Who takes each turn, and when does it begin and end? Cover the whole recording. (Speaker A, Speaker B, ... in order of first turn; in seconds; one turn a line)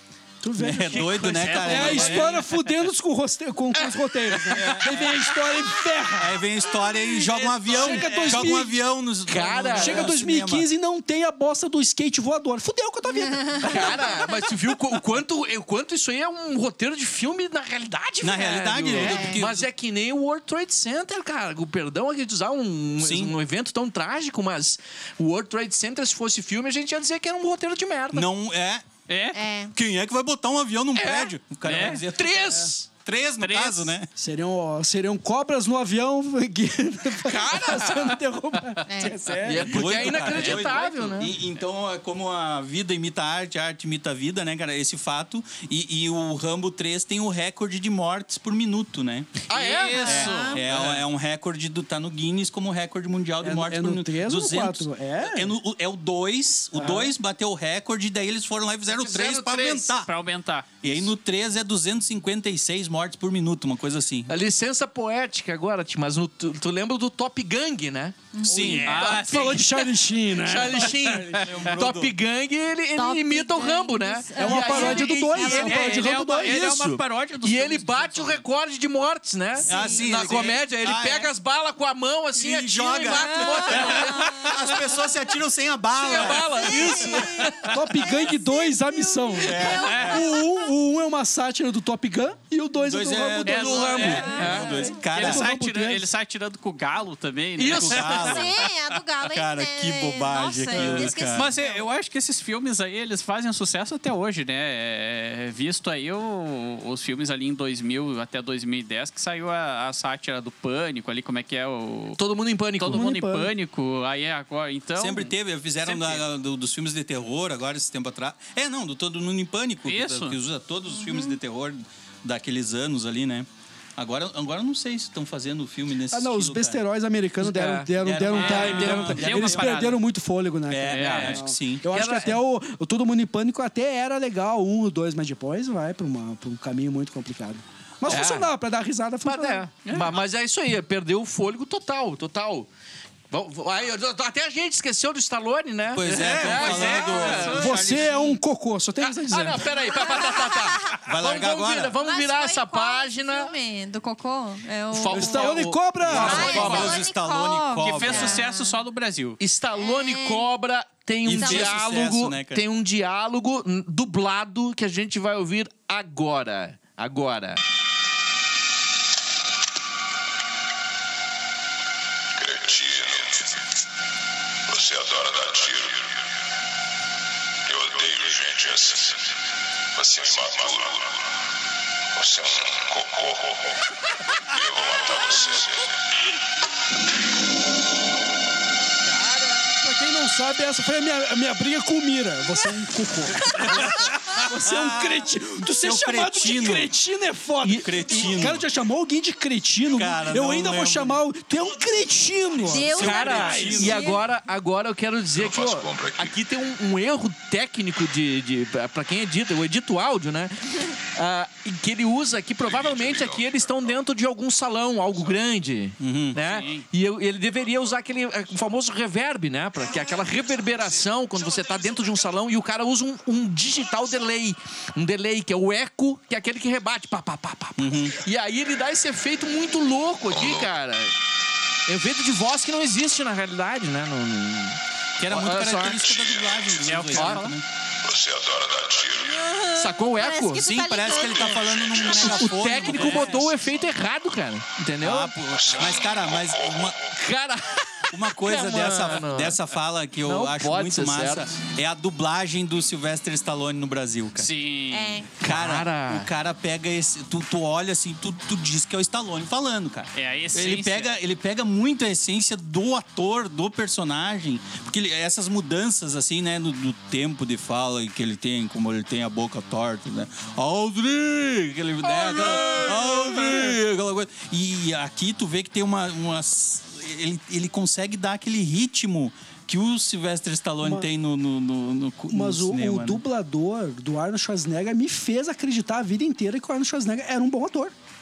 Speaker A: 0.4-6.4
Speaker B: 0.6-2.4
Speaker C: 0.9-2.4
Speaker D: 1.4-2.4
Speaker C: 4.4-4.7
Speaker B: 4.5-5.3
Speaker B: 6.2-10.7
Speaker D: 7.2-8.6
Speaker A: 7.7-8.7
Speaker C: 9.3-10.2
Speaker A: 9.8-14.4
Speaker E: 13.3-14.2
Speaker C: 13.6-28.3
Speaker B: 18.2-19.7
Speaker E: 18.9-19.4
Speaker B: 23.0-23.4
Speaker B: 28.1-28.9
Speaker D: 29.1-29.4
Speaker E: 29.3-29.7
Speaker B: 29.7-34.1
Speaker C: 30.9-31.3
Speaker D: 31.6-32.0
Speaker C: 32.1-32.9
Speaker D: 33.4-34.0
Speaker A: 34.2-40.1
Speaker C: 37.2-38.2
Speaker E: 38.9-39.2
Speaker C: 39.4-41.4
Speaker B: 39.6-49.4
Speaker D: 40.2-40.8
Speaker C: 49.5-50.3
Speaker D: 49.5-51.0
Speaker E: 49.9-50.6
Speaker B: 50.1-60.1
Speaker A: 53.4-55.6
Speaker A: 56.7-57.1
Speaker C: 58.9-59.9
Speaker D: 60.0-60.7
Speaker B: 60.8-64.3
Speaker C: 64.3-69.7
Speaker E: 68.3-68.8
Speaker B: 68.4-69.1
Speaker A: 68.5-71.4
Speaker D: 68.8-69.8
Speaker C: 70.4-84.4
Speaker D: 71.2-71.8
Speaker B: 71.4-72.2
Speaker E: 73.0-75.7
Speaker A: 74.4-76.9
Speaker D: 75.2-78.5
Speaker E: 79.5-80.1
Speaker B: 79.7-81.3
Speaker B: 82.4-87.2
Speaker E: 83.1-84.5
Speaker D: 83.7-84.7
Speaker C: 85.9-87.7
Speaker E: 86.8-90.7
Speaker A: 87.6-94.3
Speaker B: 89.4-90.2
Speaker D: 89.7-90.3
Speaker B: 92.8-95.5
Speaker D: 93.4-98.5
Speaker C: 93.7-94.8
Speaker E: 94.1-95.0
Speaker A: 95.0-96.1
Speaker C: 97.6-98.4
Speaker B: 97.7-98.7
Speaker E: 98.2-101.8
Speaker B: 99.2-101.5
Speaker D: 100.7-112.2
Speaker C: 112.2-113.0
Speaker D: 112.8-116.2
Speaker A: 112.8-113.5
Speaker B: 115.0-126.8
Speaker D: 119.9-120.4
Speaker E: 120.9-121.4
Speaker A: 126.1-139.7
Speaker C: 127.4-127.9
Speaker B: 128.0-129.9
Speaker D: 128.3-130.0
Speaker C: 128.4-129.2
Speaker B: 130.7-131.9
Speaker D: 130.9-131.4
Speaker C: 131.9-132.4
Speaker C: 138.1-138.5
Speaker C: 139.2-142.7
Speaker D: 139.9-140.2
Speaker C: 143.3-147.9
Speaker B: 145.9-148.4
Speaker D: 146.2-148.1
Speaker A: 147.5-149.8
Speaker C: 149.0-153.5
Speaker E: 149.9-151.0
Speaker B: 151.1-152.0
Speaker E: 152.0-155.5
Speaker C: 154.9-157.0
Speaker A: 155.1-156.8
Speaker D: 155.4-157.0
Speaker B: 156.1-158.5
Speaker E: 156.2-158.8
Speaker D: 157.8-159.4
Speaker C: 159.4-167.6
Speaker E: 159.7-160.5
Speaker B: 161.2-162.7
Speaker E: 161.3-161.8
Speaker F: 172.3-173.6
Speaker F: 174.7-176.3
Speaker F: 177.7-179.4
Speaker F: 179.9-181.3
Speaker F: 182.1-183.8
Speaker F: 184.5-185.9
Speaker A: 189.5-204.0
Speaker B: 193.6-196.9
Speaker C: 197.6-198.0
Speaker B: 197.7-198.7
Speaker B: 199.9-201.2
Speaker E: 202.7-204.2
Speaker C: 202.9-231.1
Speaker B: 202.9-204.1
Speaker F: 205.3-206.4
Speaker F: 212.6-214.0
Speaker B: 216.0-216.5
Speaker D: 216.4-216.8
Speaker B: 227.8-228.2
Speaker F: 230.3-230.7
Speaker C: 231.9-236.0
Speaker B: 235.2-237.7
Speaker F: 236.0-236.7
Speaker D: 236.8-237.6
Speaker C: 237.1-237.5
Speaker F: 238.0-239.6
Speaker E: 239.3-242.3
Speaker C: 239.7-240.7
Speaker B: 240.5-243.6
Speaker F: 241.6-242.3
Speaker C: 242.1-245.3
Speaker D: 242.8-243.4
Speaker B: 245.0-247.0
Speaker F: 245.6-246.9
Speaker C: 247.1-249.6
Speaker B: 248.1-254.5
Speaker C: 250.2-251.5
Speaker D: 254.4-255.2
Speaker E: 254.9-255.3
Speaker C: 255.4-256.3
Speaker B: 255.4-283.2
Speaker D: 260.1-261.1
Speaker C: 272.0-273.8
Speaker A: 280.8-281.1
Speaker A: 282.3-287.9